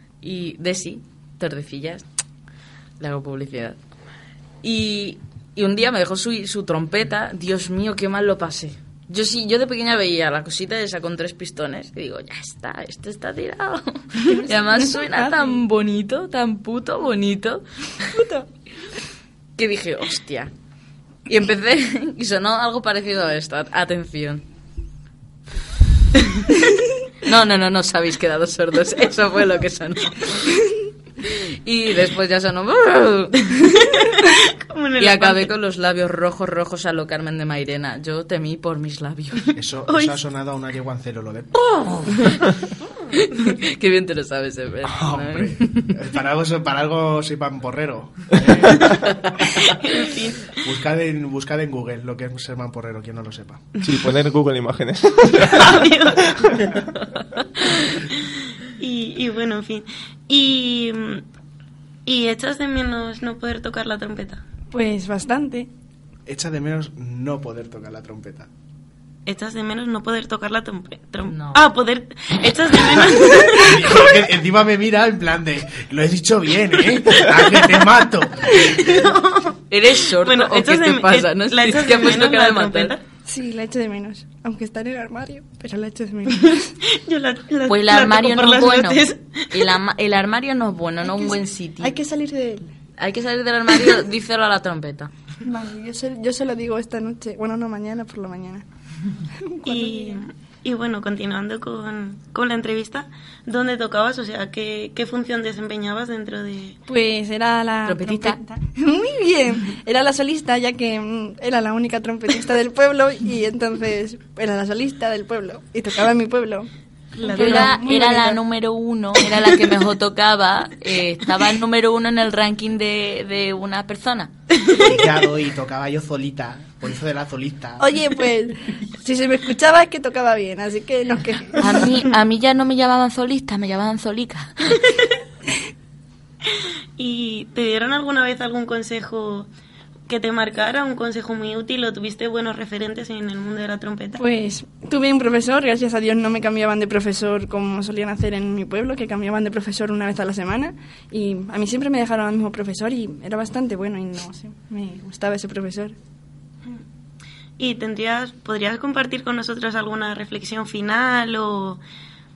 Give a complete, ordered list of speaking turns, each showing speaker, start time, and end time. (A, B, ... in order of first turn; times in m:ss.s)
0:00.2-0:02.0 A
0:03.0-0:03.8 A
0:04.6-0:17.6 A
0:14.2-0:15.6 B
0:18.1-0:18.5 B
0:19.6-0:20.5 A
0:21.3-0:24.4 A
0:26.2-0:26.5 A
0:27.2-0:30.5 A
0:31.6-0:33.9 A
0:34.3-0:35.5 C
0:35.0-0:39.5 A
0:39.5-0:41.7 D
0:39.9-0:40.2 C
0:43.2-0:45.9 A
0:44.8-0:48.8 D
0:49.7-0:50.6 C
0:50.6-0:53.6 D
0:53.8-0:55.9 E
0:55.4-0:56.7 C
0:57.7-0:58.2 C
0:58.8-1:01.2 C
1:02.0-1:04.4 C
1:04.7-1:05.7 B
1:06.3-1:08.5 D
1:09.2-1:14.1 C
1:11.3-1:11.6 A
1:13.5-1:18.7 D
1:18.8-1:23.0 C
1:19.7-1:22.9 A
1:23.2-1:26.7 B
1:26.9-1:29.6 C
1:27.7-1:32.0 A
1:31.0-1:32.7 B
1:33.0-1:35.1 A
1:35.4-1:38.6 B
1:39.4-1:40.2 B
1:39.6-1:46.8 C
1:46.9-1:58.4 B
1:47.8-1:48.4 A
1:57.2-1:57.8 C
1:57.3-2:04.3 A
2:04.8-2:07.9 D
2:07.8-2:11.8 B
2:11.6-2:14.5 A
2:17.0-2:19.5 C
2:20.1-2:24.2 C
2:24.2-2:35.9 B
2:37.6-2:41.8 C